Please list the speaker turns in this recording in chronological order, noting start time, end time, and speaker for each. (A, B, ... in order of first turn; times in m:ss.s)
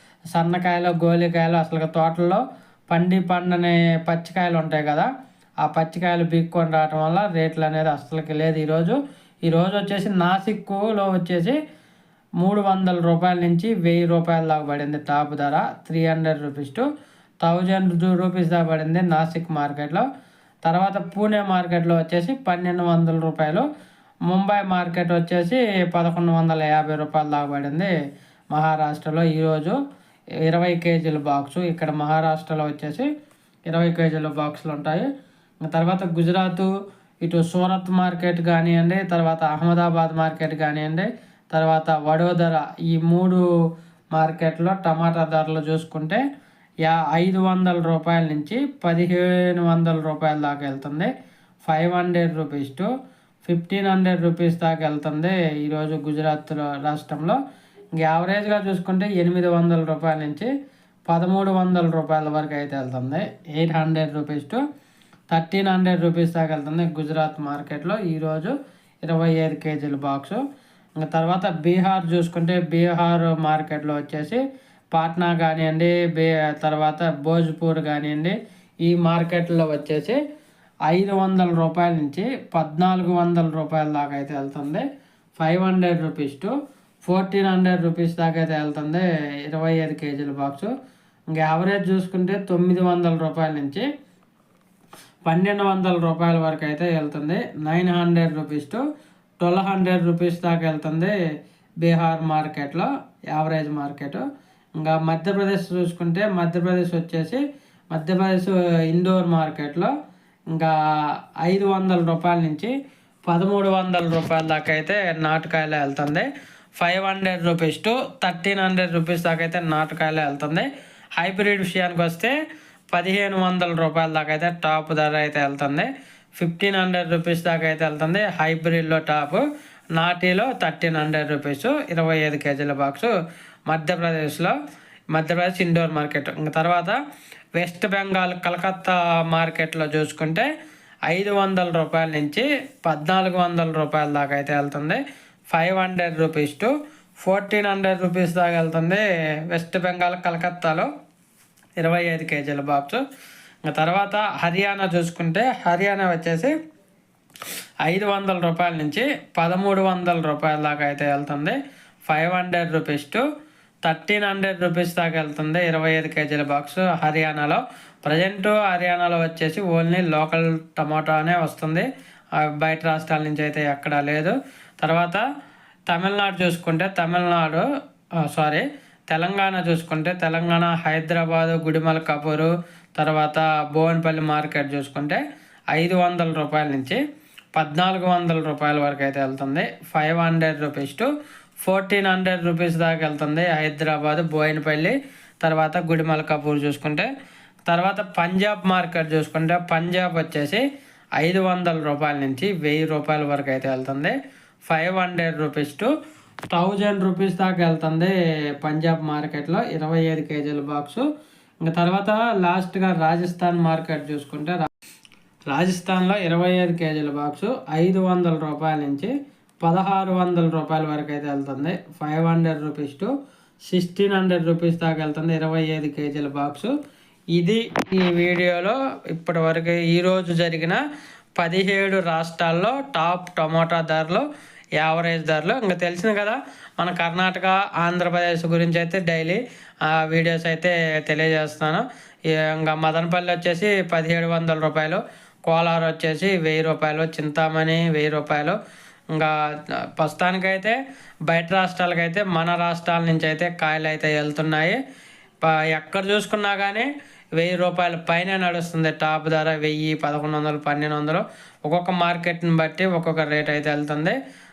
0:00.3-0:05.1 A
0:05.6-0:11.6 A
0:12.4-0:16.9 A
0:17.4-0:20.1 A
0:20.6-0:23.7 A
0:24.3-0:27.9 A
0:28.5-0:29.8 A
0:30.4-0:33.1 A
0:33.7-0:35.1 A
0:35.6-0:36.7 A
0:37.2-0:43.4 A
0:44.2-0:46.2 A
0:46.8-0:51.1 A
0:51.6-0:52.9 A
0:53.5-0:57.4 A
0:58.0-1:00.5 A
1:01.1-1:04.6 A
1:05.3-1:10.4 A
1:11.0-1:14.4 A
1:14.9-1:20.2 A
1:20.9-1:24.9 A
1:25.4-1:26.5 A
1:27.0-1:30.7 A
1:31.3-1:33.8 A
1:35.3-1:38.8 A
1:39.4-1:41.1 A
1:41.8-1:44.2 A
1:44.8-1:49.9 A
1:51.4-1:52.7 A
1:53.3-1:56.3 A
1:56.8-2:00.7 A
2:01.2-2:02.3 A
2:02.9-2:09.4 A
2:10.0-2:13.1 A
2:13.7-2:14.6 A
2:15.1-2:17.0 A
2:17.6-2:20.5 A
2:21.1-2:26.7 A
2:27.2-2:30.9 A
2:31.8-2:33.0 A
2:33.7-2:36.5 A
2:37.8-2:43.2 A
2:43.8-2:51.9 A
2:52.4-2:55.2 A
2:55.9-2:57.7 A
2:58.3-3:05.2 A
3:05.7-3:07.0 A
3:07.6-3:11.1 A
3:11.6-3:17.1 A
3:17.7-3:20.6 A
3:21.2-3:24.2 A
3:24.7-3:25.9 A
3:26.5-3:31.0 A
3:31.6-3:34.7 A
3:35.5-3:39.1 A
3:39.6-3:43.1 A
3:43.7-3:46.7 A
3:47.4-3:50.8 A
3:51.4-3:54.2 A
3:54.8-4:08.6 A
4:10.0-4:14.8 A
4:15.4-4:24.2 A